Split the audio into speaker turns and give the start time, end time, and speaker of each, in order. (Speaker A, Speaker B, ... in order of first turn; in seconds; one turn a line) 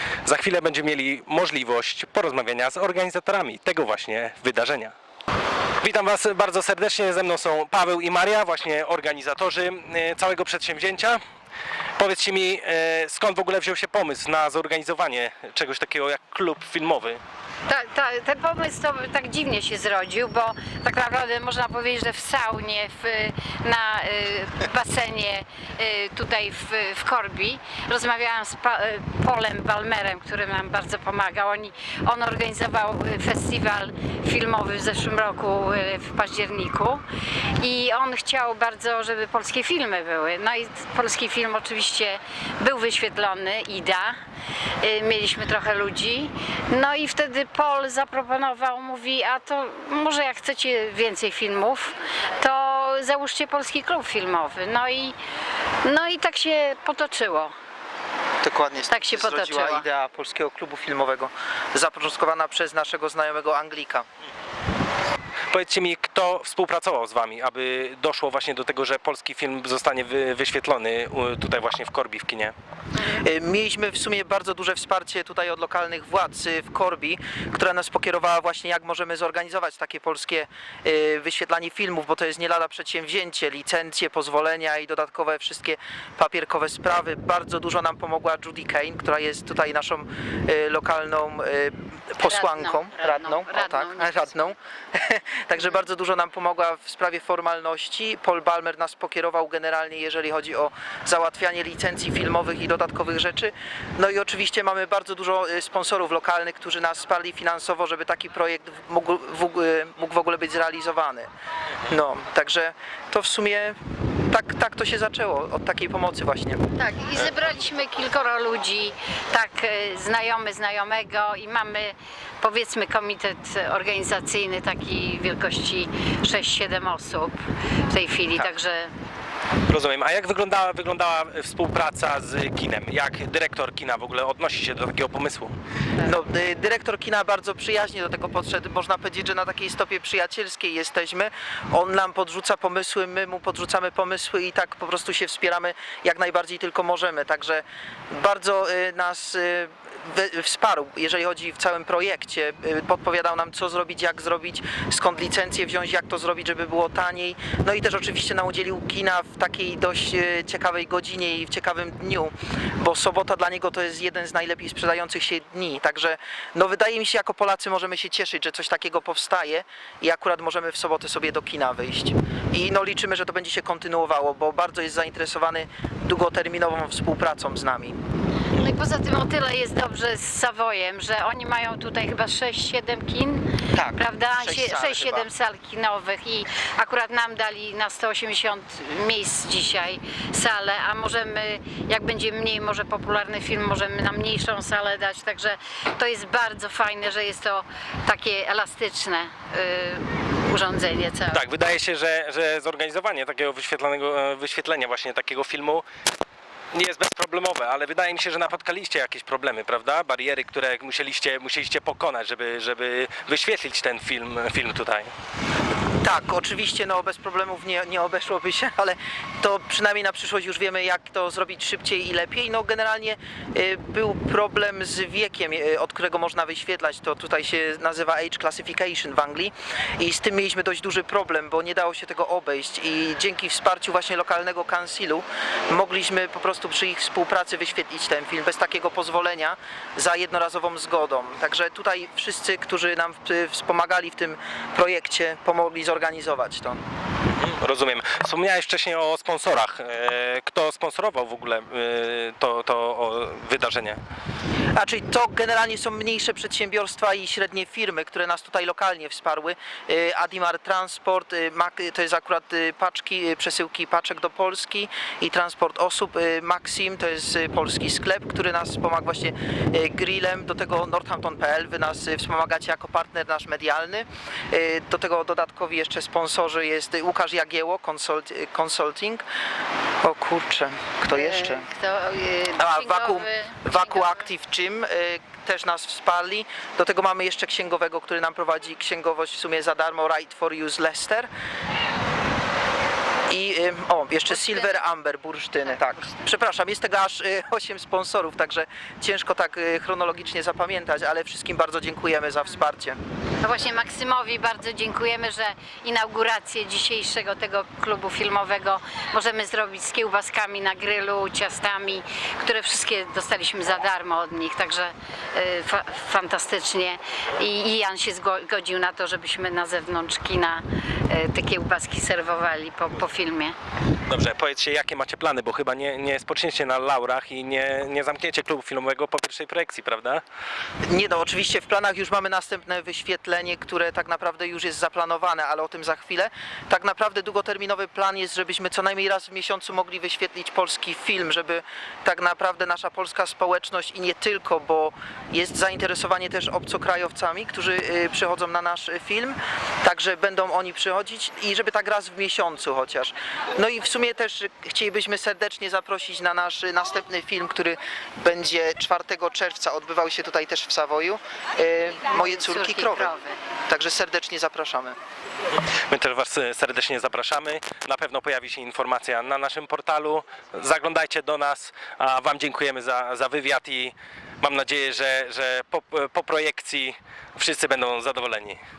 Speaker A: 0.2-4.9
Speaker A: 5.8-11.2
Speaker A: 12.0-17.2
Speaker B: 17.7-37.0
Speaker B: 37.6-44.2
Speaker B: 44.8-55.2
Speaker B: 55.8-57.5
Speaker C: 58.4-64.1
Speaker B: 58.9-59.9
Speaker A: 65.5-72.5
Speaker C: 73.0-111.3
Speaker B: 92.2-94.5
Speaker C: 111.9-113.8
Speaker C: 114.3-116.6
Speaker B: 116.8-127.4
Speaker B: 127.9-128.9
Speaker A: 129.7-135.6
Speaker C: 136.0-178.0
Speaker B: 178.5-183.4
Speaker C: 183.7-185.3
Speaker B: 183.9-201.4
Speaker A: 201.3-205.8
Speaker A: 206.7-215.1
Speaker C: 216.0-246.8
Speaker A: 247.3-254.0
Speaker C: 254.8-279.2
Speaker C: 280.0-281.7
Speaker B: 281.1-284.2
Speaker C: 282.6-291.3
Speaker C: 293.3-303.0
Speaker B: 294.3-294.8
Speaker B: 303.4-323.6
Speaker A: 324.1-330.2
Speaker C: 330.8-363.1
Speaker B: 362.1-363.4
Speaker C: 363.7-365.0
Speaker A: 365.9-378.6